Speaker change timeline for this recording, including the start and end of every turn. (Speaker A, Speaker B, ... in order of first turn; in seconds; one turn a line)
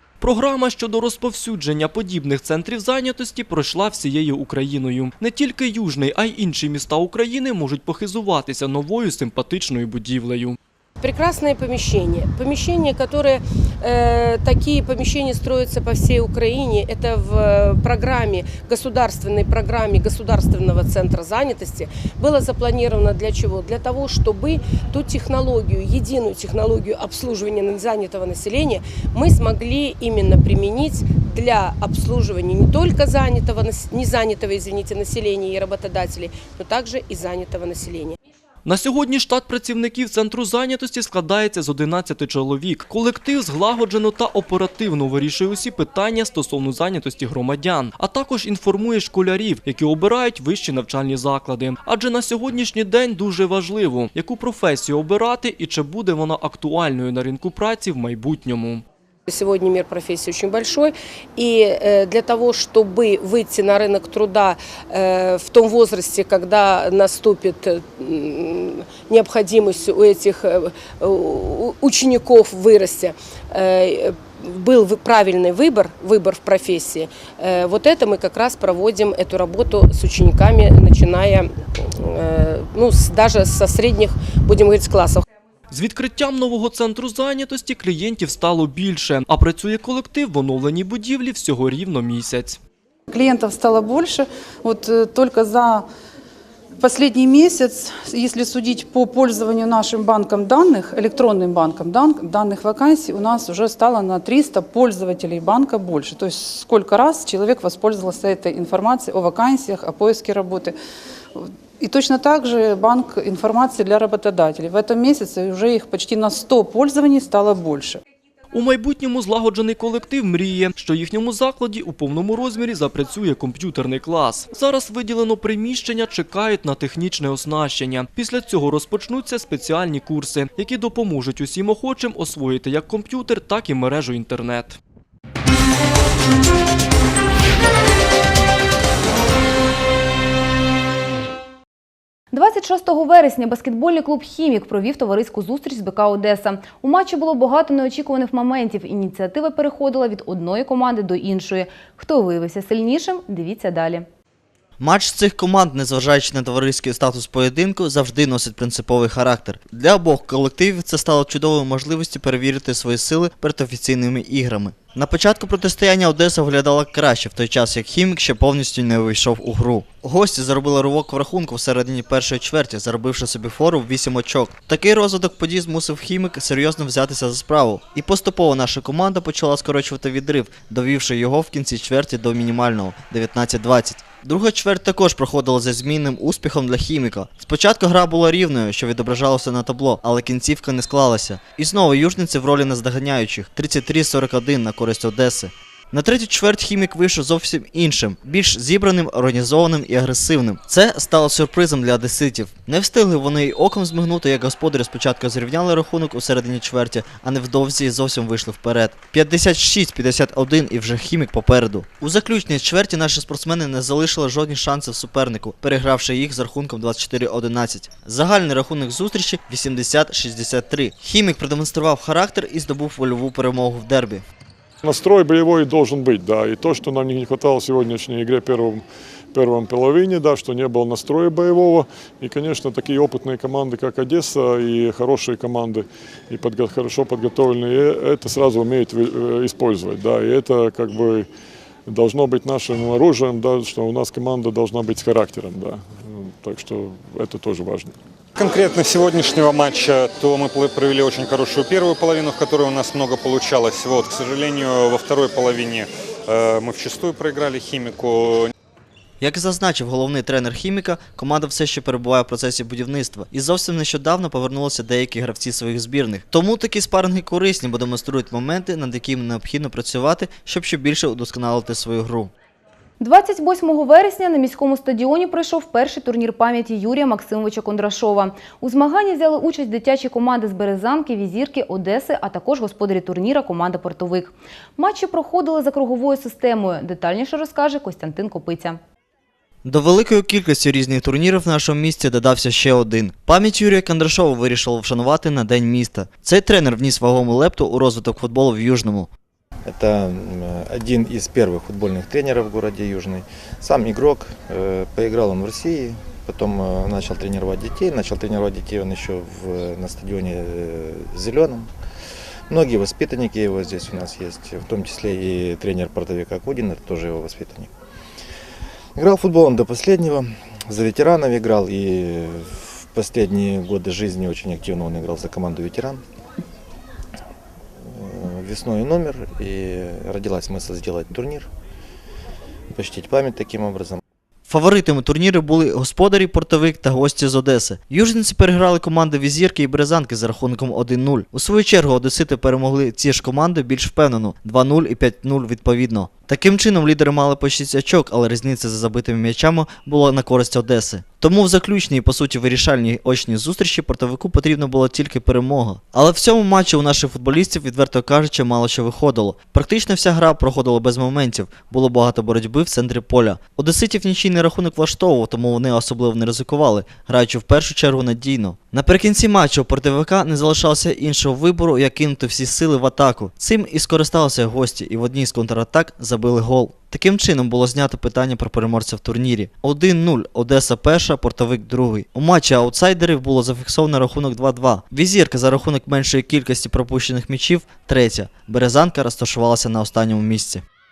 Speaker A: 0.2-10.6
Speaker B: 11.0-38.2
Speaker A: 38.6-58.8
Speaker B: 59.3-85.2
Speaker A: 85.7-92.6
Speaker C: 93.1-95.9
Speaker C: 96.8-110.8
Speaker C: 111.3-118.0
Speaker A: 118.5-134.8
Speaker D: 142.3-154.1
Speaker E: 154.8-224.2
Speaker F: 224.8-241.3
Speaker F: 241.9-247.9
Speaker G: 248.4-258.5
Speaker E: 259.2-272.3
Speaker D: 273.0-288.8
Speaker E: 289.6-299.1
Speaker H: 299.7-311.7
Speaker H: 312.5-317.7
Speaker H: 319.0-326.0
Speaker H: 327.9-331.5
Speaker H: 332.7-334.0
Speaker E: 334.5-390.6